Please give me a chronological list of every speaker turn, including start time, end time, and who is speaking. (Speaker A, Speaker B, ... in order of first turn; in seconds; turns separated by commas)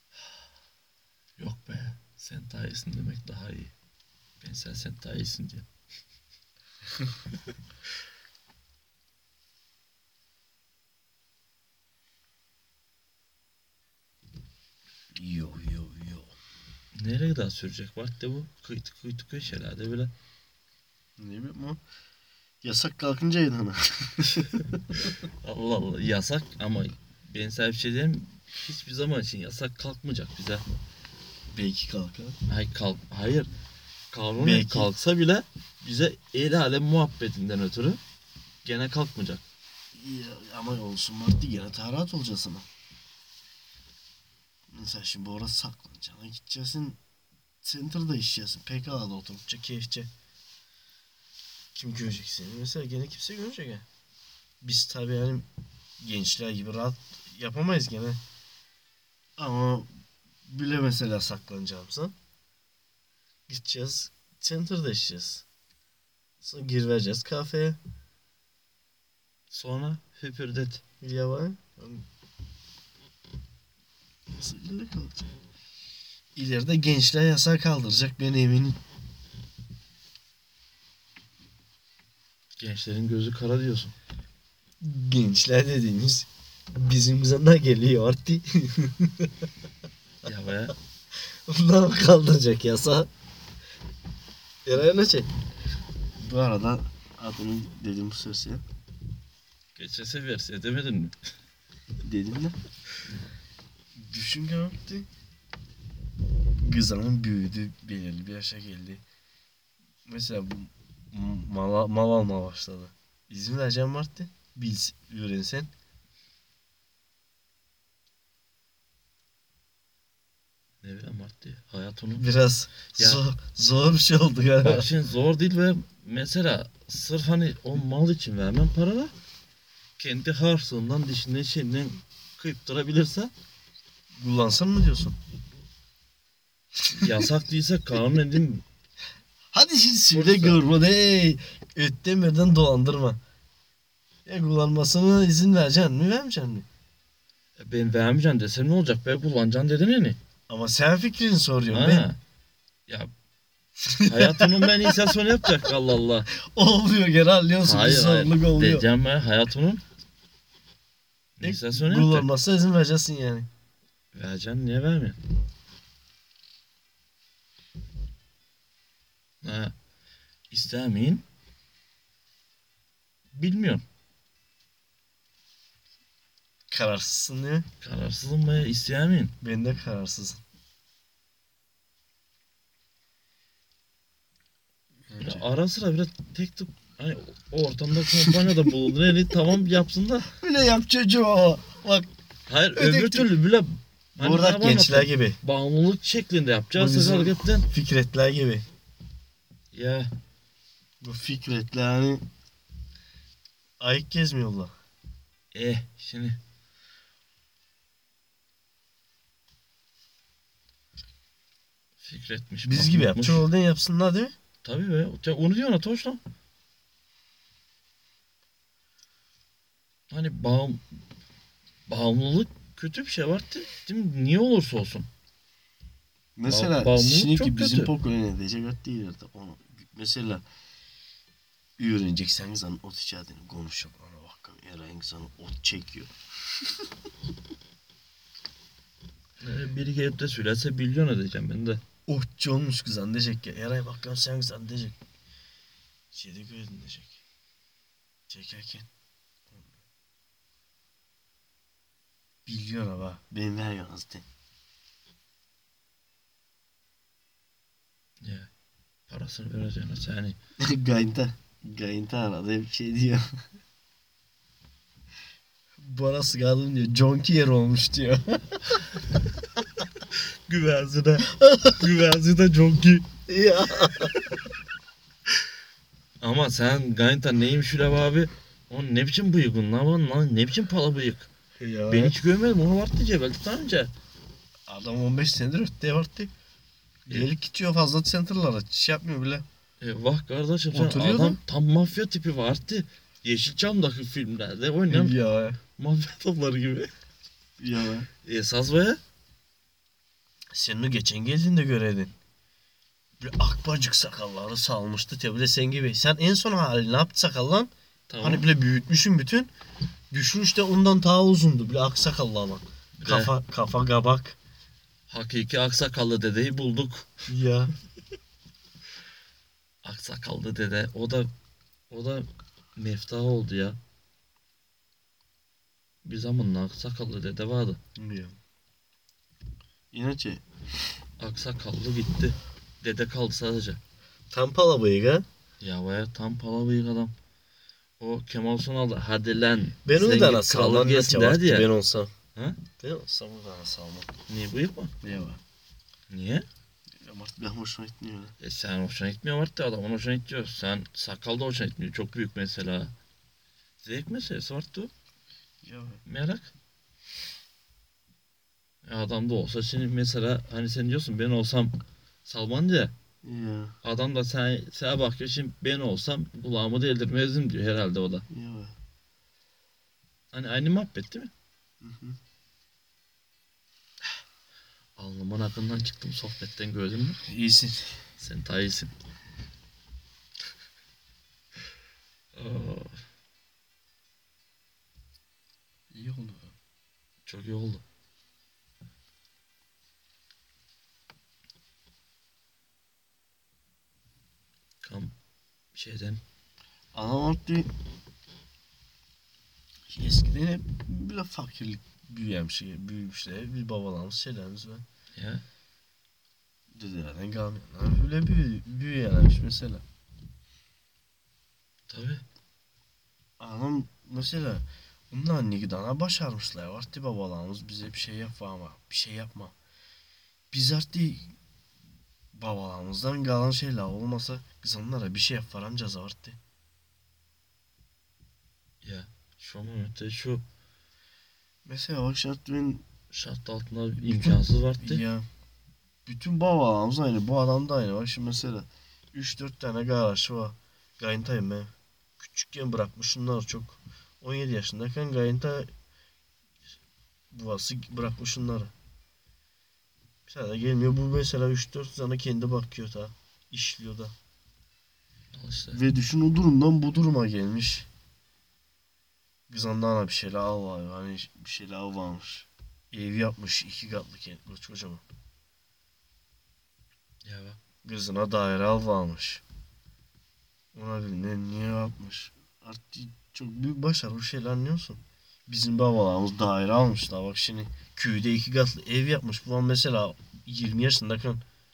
Speaker A: 1.4-3.7, Speaker A: 4.4-5.7, Speaker B: 15.1-16.3, Speaker A: 16.9-20.1, Speaker B: 21.2-21.8, Speaker B: 22.6-25.1, Speaker A: 24.9-30.6, Speaker B: 31.5-32.4, Speaker A: 32.5-33.5, Speaker A: 34.1-38.0, Speaker B: 34.4-34.9, Speaker A: 38.6-39.4, Speaker B: 39.9-42.7, Speaker B: 44.7-47.0, Speaker B: 47.6-50.1, Speaker B: 51.7-53.9, Speaker B: 54.6-55.5, Speaker B: 56.0-58.2, Speaker B: 59.4-59.9, Speaker B: 60.5-62.1, Speaker B: 63.5-65.4, Speaker B: 66.4-67.8, Speaker A: 69.5-70.8, Speaker B: 71.0-72.0, Speaker B: 74.3-75.3, Speaker B: 76.3-78.8, Speaker A: 82.6-83.9, Speaker B: 84.8-89.5, Speaker A: 90.2-90.7, Speaker B: 91.5-93.1, Speaker B: 94.6-95.3, Speaker B: 96.2-98.6, Speaker A: 99.8-101.1, Speaker B: 102.0-102.6, Speaker B: 103.9-105.1, Speaker B: 106.6-109.0, Speaker B: 110.0-115.7, Speaker A: 120.8-122.2, Speaker B: 122.2-124.9, Speaker A: 123.0-123.2, Speaker A: 124.6-129.1, Speaker A: 130.0-133.3, Speaker B: 134.1-135.2, Speaker B: 136.8-137.3, Speaker A: 136.9-138.6, Speaker B: 139.5-143.2, Speaker A: 140.1-140.6, Speaker B: 144.2-146.7, Speaker A: 147.6-150.2, Speaker B: 150.5-152.1, Speaker A: 151.7-152.2, Speaker A: 152.9-153.1, Speaker B: 153.8-155.7, Speaker A: 154.0-156.3, Speaker B: 156.3-158.9, Speaker A: 157.6-159.8, Speaker A: 161.4-162.3, Speaker B: 161.4-163.5, Speaker A: 164.1-165.2, Speaker A: 169.4-169.7, Speaker A: 170.5-171.2, Speaker A: 173.3-173.8, Speaker B: 176.7-177.7, Speaker A: 177.8-179.3, Speaker B: 179.4-180.4, Speaker B: 185.1-185.4, Speaker A: 185.2-190.3, Speaker B: 188.0-188.7, Speaker B: 190.3-192.1, Speaker A: 192.5-197.7, Speaker B: 192.7-193.3, Speaker B: 194.2-195.4, Speaker B: 196.8-198.7, Speaker A: 199.7-200.1, Speaker B: 201.0-202.2, Speaker B: 203.8-204.7, Speaker A: 205.5-206.4, Speaker A: 212.0-213.4, Speaker B: 212.7-214.3, Speaker A: 214.6-216.2, Speaker A: 220.1-220.8, Speaker A: 221.9-225.1, Speaker B: 226.3-230.4, Speaker A: 226.5-227.9, Speaker B: 231.8-236.9, Speaker A: 239.4-241.8, Speaker B: 242.1-245.0, Speaker B: 246.1-247.2, Speaker B: 248.3-248.9, Speaker B: 249.5-249.8, Speaker B: 252.4-254.2, Speaker A: 258.2-258.5, Speaker A: 259.1-260.4, Speaker B: 260.6-263.4, Speaker B: 265.8-268.8, Speaker A: 270.1-273.1, Speaker B: 271.3-271.8, Speaker B: 273.3-274.1, Speaker A: 276.2-281.3, Speaker B: 281.6-282.1, Speaker A: 281.9-283.9, Speaker B: 284.7-286.3, Speaker B: 287.1-289.4, Speaker A: 289.8-295.2, Speaker B: 290.7-291.4, Speaker B: 294.9-295.6, Speaker A: 295.8-296.9, Speaker B: 297.6-298.1, Speaker A: 298.2-299.0, Speaker B: 300.5-302.1, Speaker B: 303.2-309.5, Speaker A: 308.1-308.4, Speaker B: 310.1-314.4, Speaker A: 313.0-313.3, Speaker A: 315.1-317.2, Speaker B: 317.3-317.7, Speaker A: 319.8-321.3, Speaker A: 321.9-323.8, Speaker A: 326.0-327.8, Speaker B: 327.9-328.4, Speaker B: 329.9-330.4, Speaker A: 331.2-333.8, Speaker B: 334.3-335.2, Speaker A: 335.6-337.1, Speaker A: 338.0-341.7, Speaker B: 339.8-342.1, Speaker A: 342.3-342.6, Speaker B: 342.8-344.1, Speaker A: 344.3-344.9, Speaker B: 345.0-345.4, Speaker A: 346.1-346.4, Speaker B: 347.0-348.3, Speaker A: 348.4-352.9, Speaker A: 353.8-354.9, Speaker B: 355.6-356.0, Speaker A: 356.1-356.5, Speaker A: 358.8-362.9, Speaker B: 363.2-363.8, Speaker A: 363.8-368.2, Speaker B: 368.3-368.8, Speaker A: 370.3-371.3, Speaker B: 371.8-372.2, Speaker A: 375.0-377.2, Speaker B: 377.2-378.0, Speaker A: 378.2-378.9, Speaker A: 382.3-382.9, Speaker B: 385.9-386.5, Speaker A: 387.2-387.8, Speaker A: 394.8-395.1, Speaker A: 395.7-396.2, Speaker B: 396.9-397.7, Speaker B: 399.9-404.8, Speaker A: 405.1-405.4, Speaker B: 406.7-409.8, Speaker A: 411.9-412.2, Speaker B: 413.4-419.5, Speaker B: 420.5-421.3, Speaker B: 422.3-426.4, Speaker A: 428.8-430.4, Speaker B: 431.6-432.9, Speaker A: 433.1-435.0, Speaker B: 434.0-435.3, Speaker B: 436.0-445.7, Speaker B: 447.3-448.7, Speaker B: 450.3-454.1, Speaker A: 455.3-455.8, Speaker B: 455.7-457.9, Speaker B: 459.5-465.0, Speaker A: 467.2-467.6, Speaker B: 467.8-469.4, Speaker B: 470.7-481.4